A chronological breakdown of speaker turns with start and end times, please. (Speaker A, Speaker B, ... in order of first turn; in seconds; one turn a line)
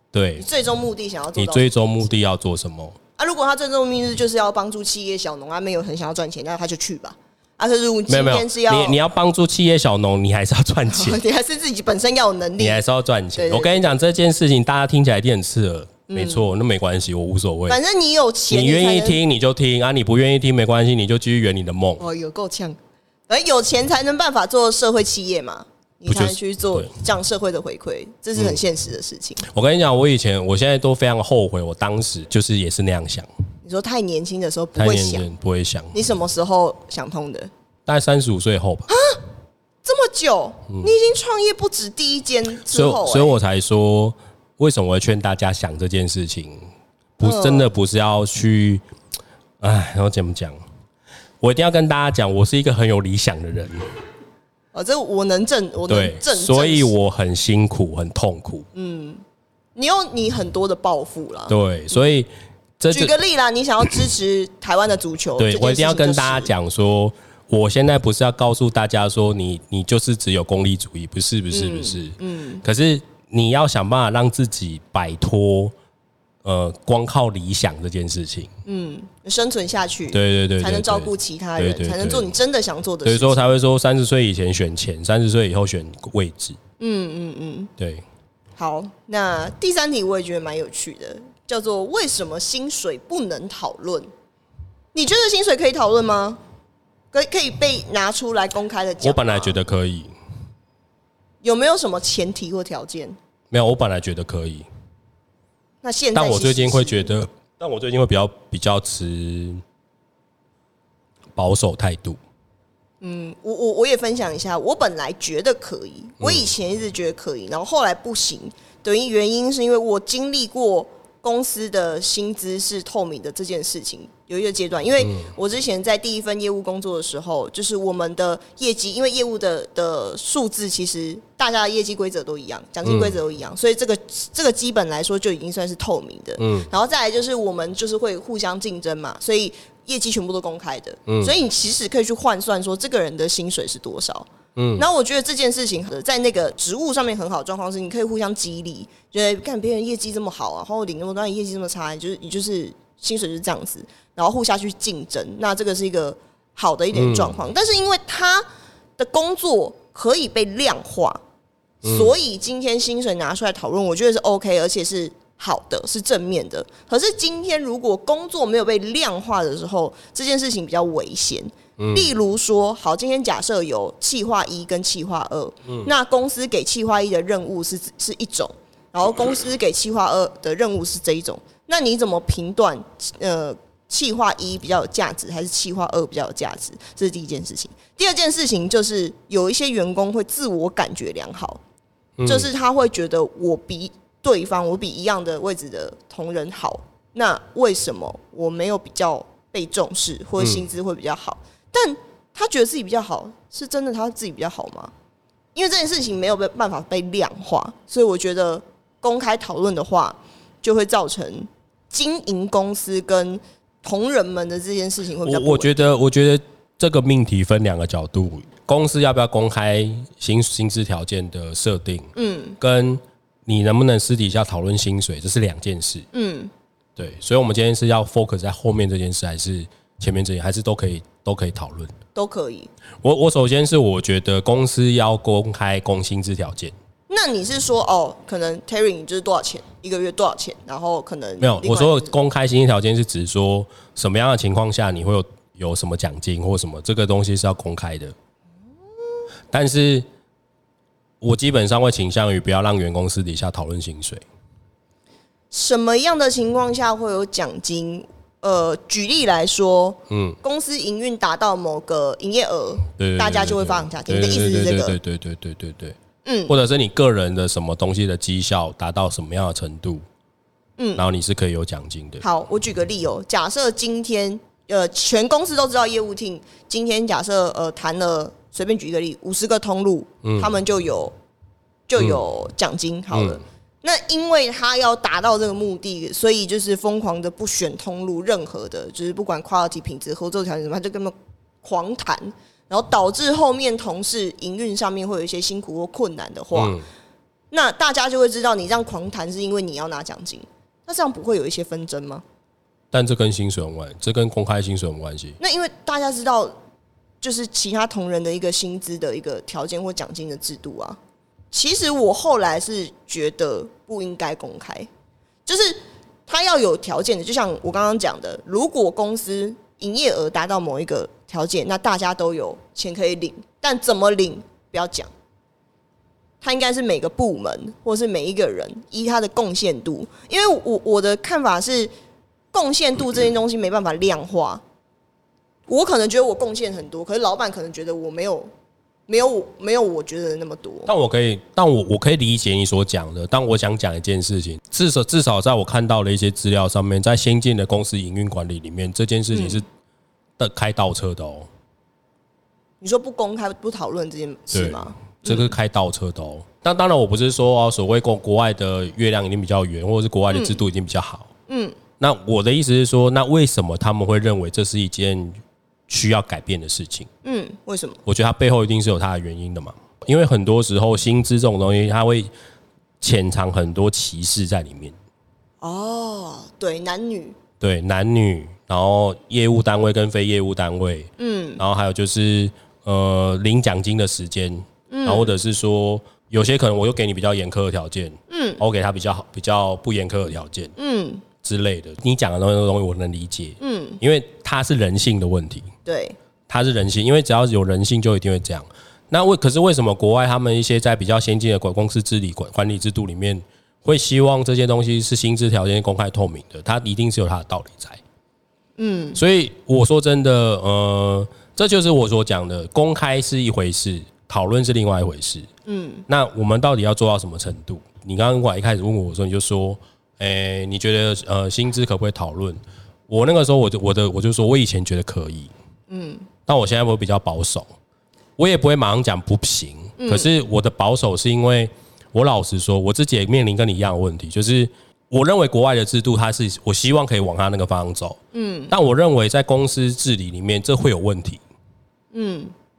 Speaker A: 0.1-0.5
Speaker B: 0.4-1.7
Speaker A: 1.4-3.0
Speaker B: 3.2-9.0
Speaker A: 8.1-11.2
Speaker B: 10.9-12.8
Speaker A: 12.6-17.8
Speaker B: 13.3-13.8
Speaker B: 16.1-16.5
Speaker B: 17.7-19.2
Speaker A: 18.5-22.0
Speaker B: 22.0-22.8
Speaker B: 23.3-29.4
Speaker A: 26.1-26.9
Speaker A: 28.4-28.6
Speaker A: 29.4-33.3
Speaker B: 33.6-35.3
Speaker A: 34.8-36.0
Speaker B: 35.9-37.5
Speaker A: 37.9-38.9
Speaker B: 38.9-39.3
Speaker B: 39.9-43.4
Speaker A: 42.7-46.7
Speaker A: 47.2-48.8
Speaker B: 47.2-47.7
Speaker A: 49.6-50.6
Speaker A: 51.4-53.9
Speaker B: 54.7-56.9
Speaker A: 55.9-58.6
Speaker B: 58.8-59.2
Speaker B: 59.8-62.0
Speaker A: 61.5-63.2
Speaker B: 62.9-66.5
Speaker A: 65.4-75.7
Speaker B: 71.5-72.6
Speaker A: 76.4-78.5
Speaker B: 78.7-83.5
Speaker A: 80.1-82.3
Speaker A: 83.0-86.6
Speaker B: 86.8-87.7
Speaker A: 87.8-88.0
Speaker B: 88.6-94.1
Speaker B: 94.9-96.4
Speaker B: 97.1-99.6
Speaker A: 99.0-100.1
Speaker B: 101.4-103.2
Speaker A: 103.5-104.7
Speaker B: 105.8-107.1
Speaker A: 106.2-109.6
Speaker A: 111.4-112.2
Speaker B: 113.0-158.5
Speaker A: 116.2-116.5
Speaker A: 132.8-133.2
Speaker A: 136.4-136.7
Speaker A: 141.1-141.3
Speaker A: 144.6-144.8
Speaker A: 156.9-157.4
Speaker B: 159.0-161.2
Speaker A: 161.8-162.1
Speaker B: 161.8-191.6
Speaker A: 171.8-172.1
Speaker A: 192.2-192.5
Speaker B: 192.2-204.9
Speaker A: 200.4-200.7
Speaker B: 205.6-215.8
Speaker A: 215.2-226.1
Speaker B: 222.2-222.6
Speaker B: 226.1-226.5
Speaker A: 227.0-231.9
Speaker B: 232.2-232.7
Speaker A: 233.0-236.7
Speaker B: 237.1-242.2
Speaker A: 241.4-248.1
Speaker A: 249.5-250.1
Speaker A: 251.2-254.2
Speaker B: 255.5-265.0
Speaker A: 260.1-260.4
Speaker A: 263.0-266.0
Speaker B: 266.2-266.5
Speaker A: 266.5-270.0
Speaker B: 270.8-271.0
Speaker A: 271.0-272.2
Speaker B: 272.2-281.1
Speaker A: 280.2-280.5
Speaker B: 281.9-296.8
Speaker A: 283.1-283.4
Speaker A: 296.6-296.8
Speaker B: 297.5-302.2
Speaker A: 302.9-305.4
Speaker B: 305.4-306.6
Speaker B: 307.2-311.0
Speaker B: 311.5-314.9
Speaker B: 315.5-325.1
Speaker B: 326.4-331.9
Speaker B: 332.5-334.6
Speaker B: 335.7-338.5
Speaker B: 339.1-340.9
Speaker A: 340.9-349.6
Speaker B: 349.3-349.6
Speaker A: 350.4-351.5
Speaker B: 352.8-355.5
Speaker A: 354.5-361.3
Speaker B: 360.3-360.6
Speaker B: 361.5-361.8
Speaker A: 362.0-367.1
Speaker B: 367.2-368.0
Speaker A: 368.1-372.3
Speaker A: 373.0-374.9
Speaker B: 375.6-377.4
Speaker A: 377.6-390.7
Speaker B: 381.2-381.6
Speaker B: 384.9-385.3
Speaker B: 388.3-388.6
Speaker B: 390.8-391.2
Speaker A: 391.4-395.7
Speaker B: 393.6-394.0
Speaker B: 395.9-396.2
Speaker A: 396.5-408.0
Speaker B: 408.8-409.2
Speaker A: 409.1-415.5
Speaker B: 415.7-416.1
Speaker A: 416.1-425.5
Speaker B: 425.9-426.3
Speaker A: 426.5-427.7
Speaker A: 428.4-438.2
Speaker B: 430.0-430.3
Speaker B: 438.3-438.7
Speaker A: 438.7-441.4
Speaker B: 442.1-442.5